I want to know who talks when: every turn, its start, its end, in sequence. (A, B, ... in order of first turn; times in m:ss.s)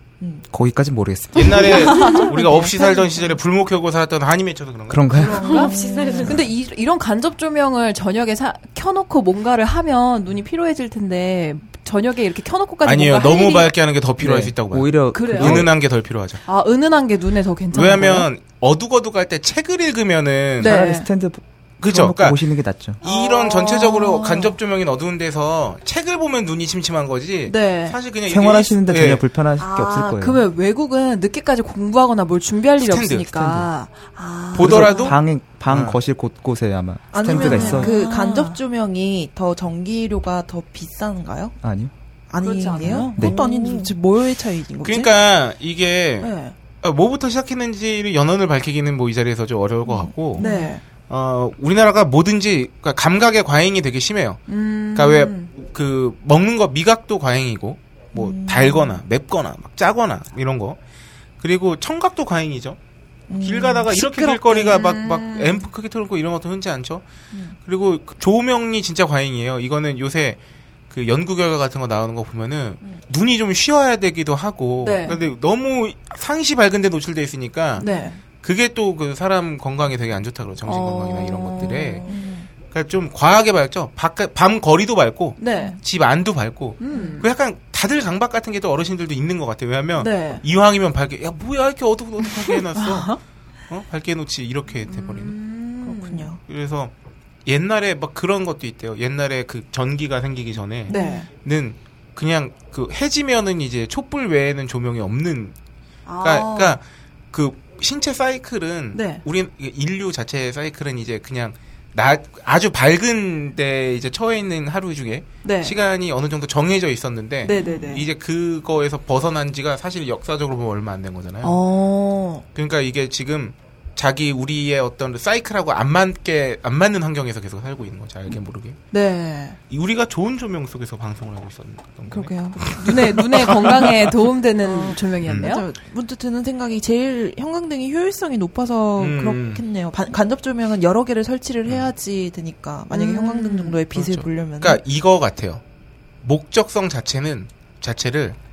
0:00.4-0:01.8 A
0:01.3-0:05.3 B
0:01.4-0:03.3 C
0:01.7-0:02.3 D
0:04.9-0:05.4 A
0:05.1-0:13.7 D
0:05.2-0:06.5 C
0:12.8-0:16.4 B
0:14.2-0:15.7 A
0:15.1-0:15.7 D
0:16.4-0:18.3 D
0:17.7-0:20.8 B
0:20.6-0:23.0 A
0:20.6-0:21.1 D
0:21.8-0:22.4 B
0:23.0-0:29.2 B
0:23.0-0:24.6 D
0:27.5-0:28.0 D
0:28.2-0:30.4 A
0:29.6-0:35.2 D
0:32.8-0:33.3 B
0:33.3-0:33.7 A
0:34.5-0:37.9 A
0:34.5-0:36.0 B
0:37.1-0:41.6 C
0:37.2-0:38.6 D
0:41.6-0:41.9 A
0:42.3-0:45.1 C
0:42.4-0:43.9 D
0:42.8-0:43.4 A
0:44.8-0:50.4 B
0:46.2-0:46.5 D
0:49.9-0:50.7 C
0:50.3-0:50.8 D
0:51.1-0:54.4 B
0:54.5-0:55.5 D
0:54.9-1:00.8 B
0:58.1-0:59.0 C
1:01.4-1:02.8 B
1:03.3-1:04.8 C
1:03.4-1:07.0 B
1:04.7-1:05.6 D
1:07.6-1:10.4 B
1:10.9-1:17.9 B
1:14.8-1:15.2 D
1:17.8-1:18.2 D
1:17.8-1:18.0 C
1:18.4-1:22.0 B
1:20.6-1:22.2 D
1:22.0-1:22.5 C
1:22.7-1:33.2 B
1:25.4-1:25.8 D
1:26.8-1:27.3 D
1:30.0-1:30.4 D
1:32.3-1:33.2 D
1:33.7-1:35.4 B
1:34.9-1:36.3 D
1:35.8-1:36.4 C
1:36.5-1:36.9 B
1:37.4-1:45.5 B
1:40.9-1:41.3 D
1:40.9-1:41.2 C
1:46.0-1:46.8 D
1:46.2-2:01.6 B
1:48.9-1:49.2 D
1:55.4-1:55.8 D
1:57.4-1:58.1 D
1:57.5-1:57.9 C
2:01.4-2:02.4 D
2:02.5-2:08.8 B
2:08.9-2:09.6 D
2:09.7-2:14.1 B
2:12.1-2:13.9 C
2:12.7-2:15.6 D
2:14.6-2:24.8 C
2:15.2-2:15.5 B
2:19.0-2:19.6 B
2:22.9-2:23.8 D
2:23.9-2:25.6 B
2:26.2-2:28.4 B